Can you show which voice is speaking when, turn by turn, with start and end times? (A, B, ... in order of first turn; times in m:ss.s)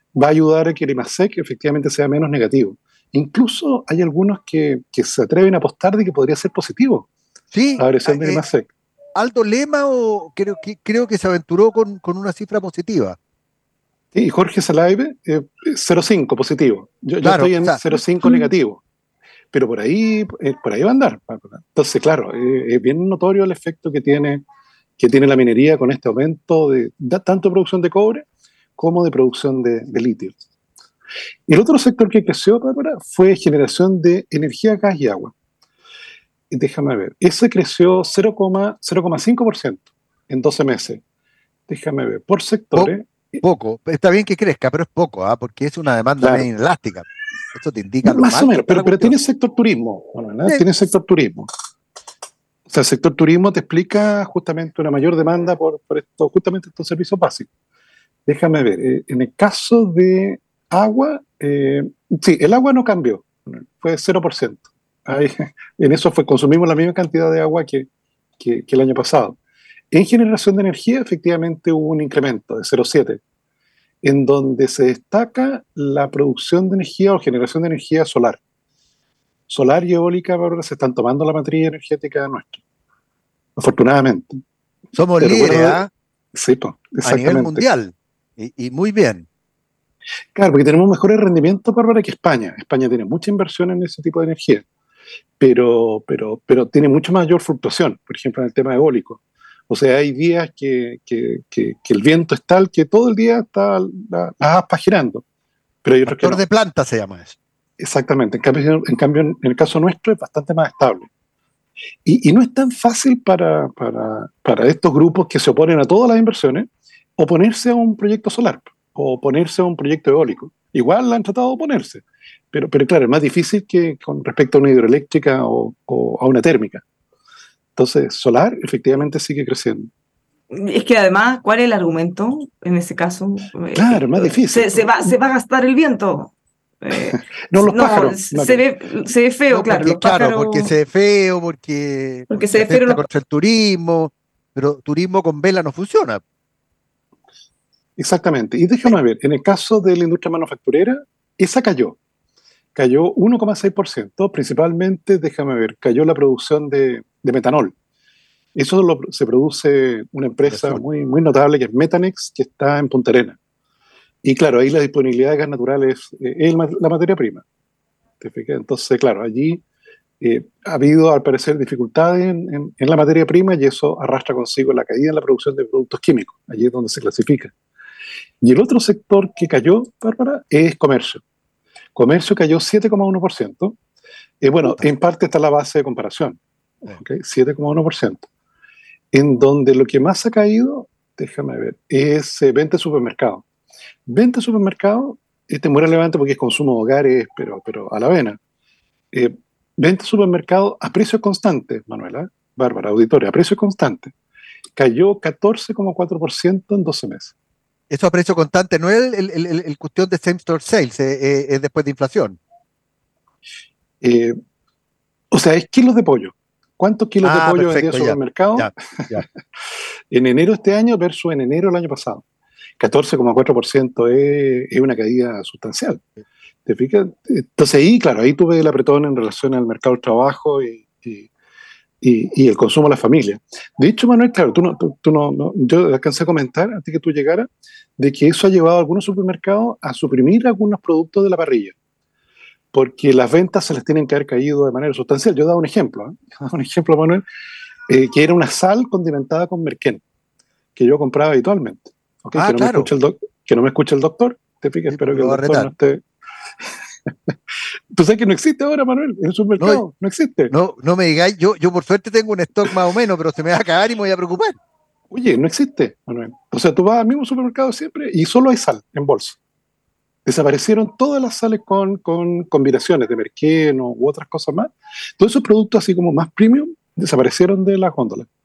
0:00.2-0:07.1 A
0:07.5-0:08.4 B
0:07.8-0:08.7 A
0:09.1-0:13.2 B
0:14.1-0:18.8 A
0:17.2-0:18.3 B
0:19.5-0:24.4 A
0:25.0-0:28.2 A
0:28.8-0:30.4 A
0:31.5-0:35.3 A
0:36.5-0:41.0 A
0:41.7-0:43.4 A
0:42.7-0:49.2 B
0:46.2-0:46.4 A
0:48.0-0:51.5 A
0:52.7-0:57.5 A
0:58.3-1:07.9 A
1:08.4-1:09.4 A
1:09.9-1:13.2 A
1:14.0-1:18.4 A
1:19.5-1:22.6 A
1:23.6-1:24.4 A
1:24.9-1:25.9 B
1:25.2-1:25.8 A
1:26.3-1:27.6 A
1:27.0-1:29.3 B
1:30.3-1:34.6 A
1:35.4-1:45.2 A
1:45.8-1:46.4 A
1:46.0-1:47.4 B
1:47.8-1:51.1 A
1:52.0-2:06.8 A
2:07.8-2:09.9 A
2:10.5-2:20.7 C
2:13.7-2:14.9 A
2:17.5-2:18.6 A
2:19.5-2:26.2 B
2:22.3-2:23.0 C
2:28.0-2:32.0 A
2:32.7-2:37.7 A
2:38.5-2:43.4 A
2:40.4-2:40.8 B
2:44.2-2:47.4 A
2:48.2-2:49.6 A
2:50.2-2:57.5 A
2:58.4-3:01.2 A
3:02.0-3:03.8 A
3:04.4-3:08.2 A
3:09.1-3:13.4 A
3:14.1-3:18.4 A
3:19.1-3:24.1 A
3:24.8-3:27.3 A
3:27.9-3:32.4 B
3:34.0-3:34.4 A
3:35.3-3:39.2 A
3:37.2-3:39.2 B
3:40.1-3:42.2 A
3:42.8-3:46.0 A
3:46.6-3:51.3 A
3:52.0-4:01.7 A
4:02.7-4:07.2 A
4:07.9-4:10.0 A
4:10.8-4:16.0 A
4:12.3-4:12.9 B
4:14.9-4:15.7 B
4:17.9-4:20.5 A
4:20.5-4:24.6 B
4:25.1-4:29.4 A
4:30.2-4:38.3 A